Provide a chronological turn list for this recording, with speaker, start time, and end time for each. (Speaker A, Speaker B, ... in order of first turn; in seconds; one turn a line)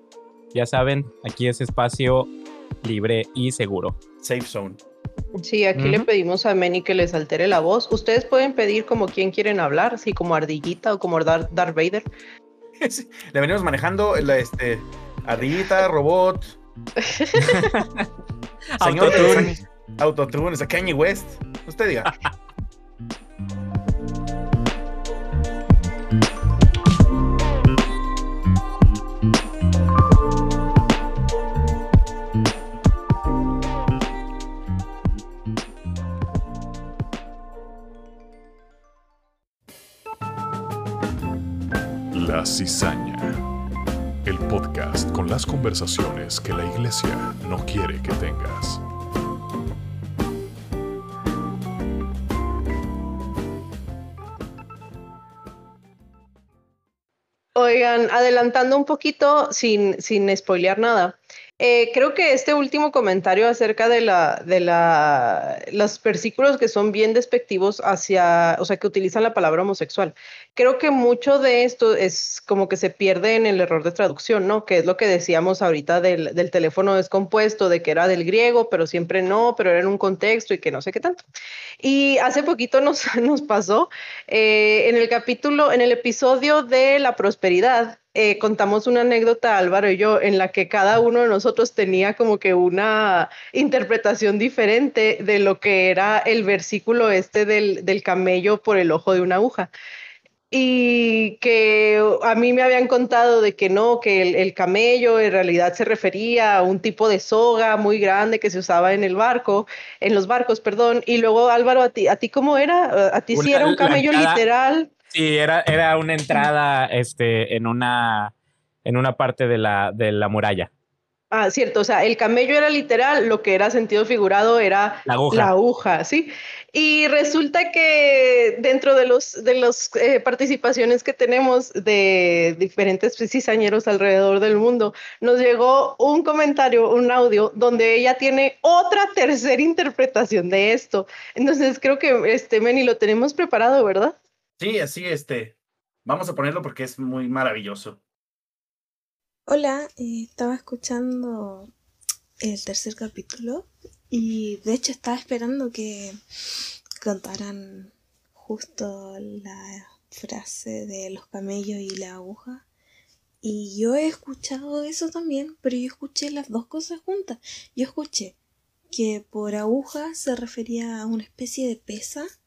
Speaker A: 0.5-4.0
Speaker B: 4.2-4.8
Speaker C: 5.4-12.1
Speaker B: 12.8-16.6
Speaker C: 17.0-17.7
Speaker A: 17.5-18.1
Speaker A: 18.8-19.5
Speaker B: 18.8-22.1
Speaker D: 42.1-43.4
Speaker D: 44.2-48.8
Speaker C: 57.6-81.2
Speaker C: 81.8-99.7
Speaker C: 100.5-114.9
Speaker A: 113.3-114.4
Speaker A: 115.1-118.3
Speaker A: 118.8-120.7
Speaker C: 121.3-144.2
Speaker A: 125.1-125.5
Speaker B: 144.6-148.0
Speaker E: 149.5-151.7
Speaker E: 152.4-156.2
Speaker E: 157.0-162.7
Speaker E: 163.4-168.4
Speaker E: 168.9-172.3